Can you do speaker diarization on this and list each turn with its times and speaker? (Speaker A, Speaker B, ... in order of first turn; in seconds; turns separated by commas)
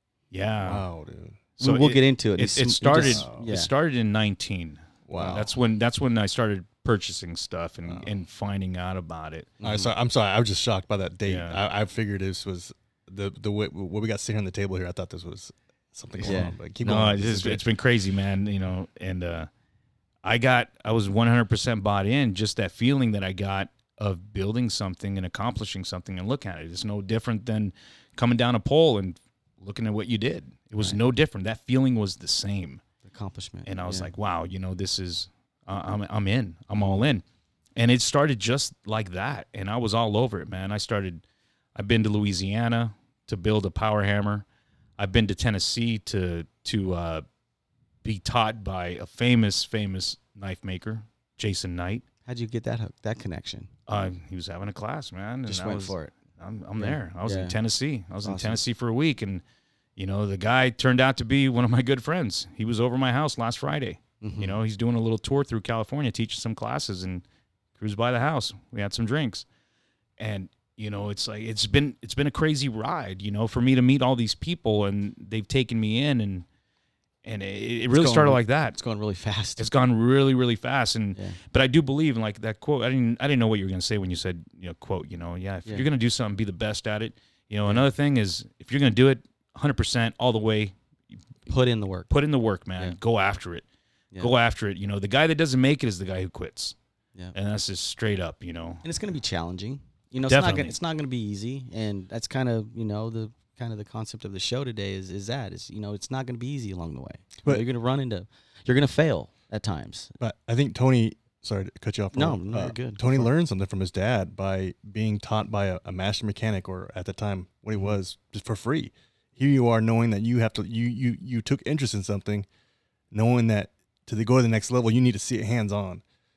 Speaker A: 0.3-0.8, Speaker B: 0.6-1.4, Speaker A: 1.6-9.5, Speaker C: 1.6-3.7, Speaker B: 3.0-3.3, Speaker B: 5.1-5.5, Speaker C: 5.1-5.4, Speaker C: 9.6-9.9, Speaker B: 9.6-17.6, Speaker A: 11.2-11.6, Speaker C: 16.2-17.1, Speaker A: 16.3-19.5, Speaker A: 20.2-32.8, Speaker C: 33.0-34.1, Speaker A: 33.6-37.2, Speaker C: 36.8-37.0, Speaker A: 37.8-41.2, Speaker A: 41.8-44.5, Speaker A: 45.0-47.2, Speaker A: 48.0-52.0, Speaker C: 52.2-53.7, Speaker A: 53.9-59.4, Speaker C: 55.5-56.1, Speaker C: 56.8-57.5, Speaker C: 58.2-58.6, Speaker A: 60.0-67.2, Speaker C: 64.2-64.6, Speaker A: 67.8-69.4, Speaker A: 70.2-76.5, Speaker A: 77.2-78.8, Speaker C: 78.0-79.7, Speaker A: 79.6-90.7, Speaker C: 81.1-81.4, Speaker C: 91.5-92.1, Speaker A: 92.1-93.6, Speaker A: 94.2-96.8, Speaker A: 97.3-98.8, Speaker C: 98.8-110.1, Speaker A: 100.2-100.7, Speaker B: 110.2-122.5, Speaker C: 112.1-113.3, Speaker B: 123.1-126.0